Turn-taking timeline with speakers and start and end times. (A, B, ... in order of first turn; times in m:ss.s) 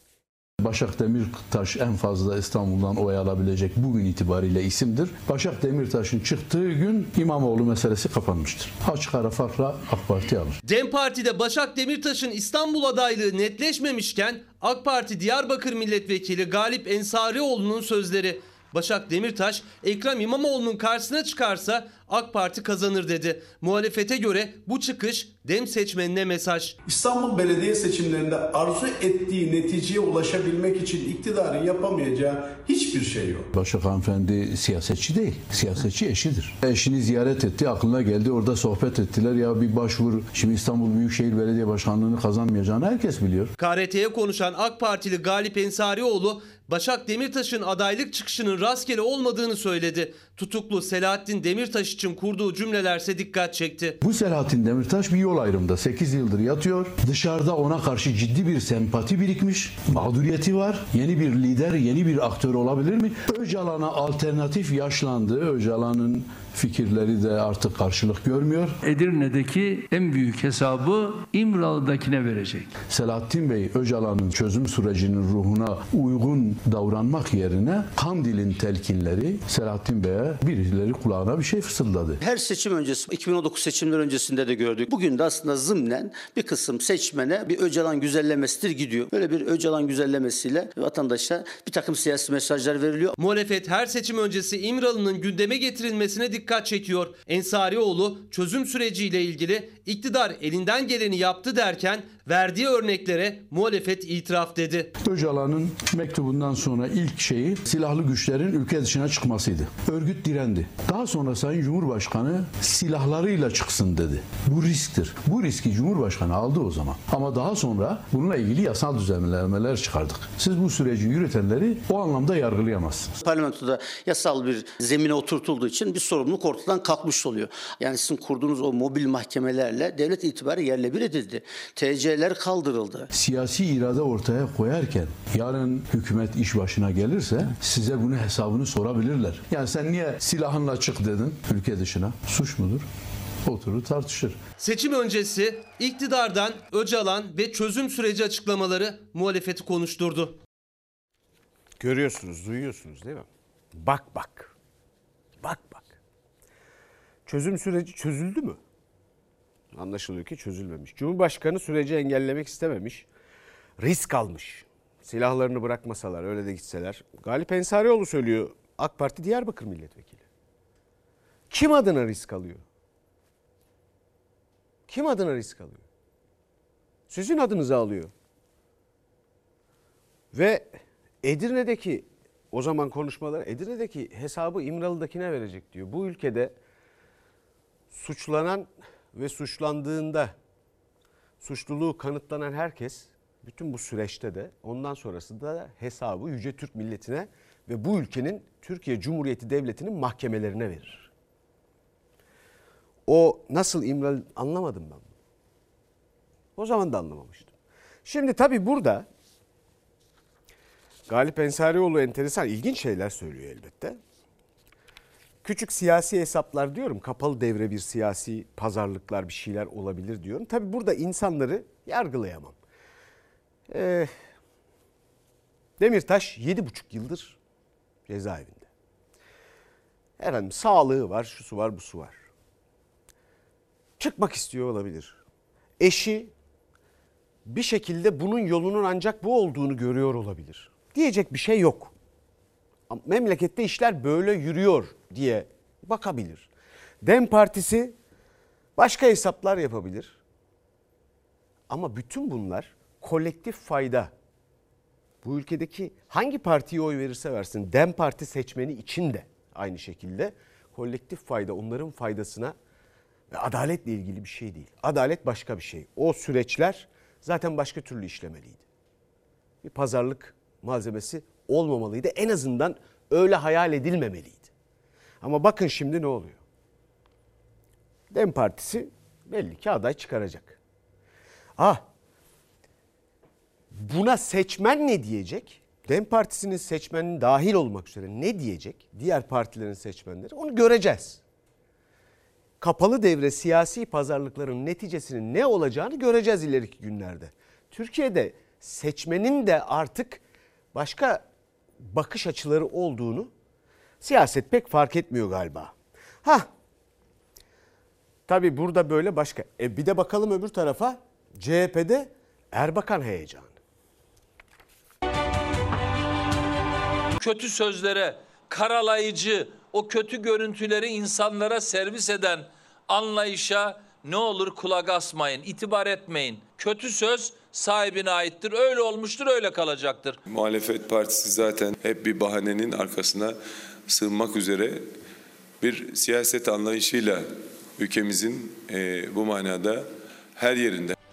0:00.6-0:10.6 A
0:10.6-0:26.7 B
0:26.8-0:33.5 C
0:33.5-0:43.5 A
0:43.6-0:53.9 B
0:54.0-1:08.8 A
1:09.2-1:12.7 D
1:12.9-1:22.2 A
1:22.2-1:33.1 E
1:33.2-1:44.9 B
1:45.0-2:03.1 A
2:03.2-2:13.0 E
2:13.1-2:22.9 A
2:23.4-2:24.4 A
2:24.6-2:30.3 B
2:31.8-2:34.5 F
2:35.4-2:36.0 F
2:37.2-2:38.6 F
2:39.7-2:43.1 F
2:43.8-2:50.2 F
2:51.5-2:52.6 F
2:54.9-2:55.8 F
2:57.1-2:58.1 F
3:00.3-3:06.5 F
3:07.9-3:10.3 F
3:11.4-3:21.1 F
3:23.1-3:25.1 F
3:26.6-3:27.5 F
3:28.0-3:29.1 F
3:31.1-3:34.0 F
3:35.4-3:42.5 F
3:43.7-3:44.1 F
3:45.8-3:47.4 F
3:48.1-3:48.7 F
3:50.2-3:52.2 F
3:54.0-3:55.2 F
3:55.8-3:56.3 F
3:57.5-4:01.9 F
4:02.9-4:06.5 F
4:07.0-4:07.9 F
4:08.8-4:10.2 F
4:11.7-4:14.1 F
4:15.2-4:22.5 F
4:23.3-4:28.6 F
4:29.6-4:34.5 F
4:35.2-4:36.4 F
4:38.1-4:40.6 F
4:41.6-4:41.8 F
4:43.7-4:51.2 F
4:52.6-5:00.2 F
5:00.7-5:01.2 F
5:01.8-5:03.3 F
5:04.0-5:06.5 F
5:08.3-5:13.5 F
5:17.2-5:30.2 G
5:30.2-5:34.9 H
5:35.6-5:41.0 H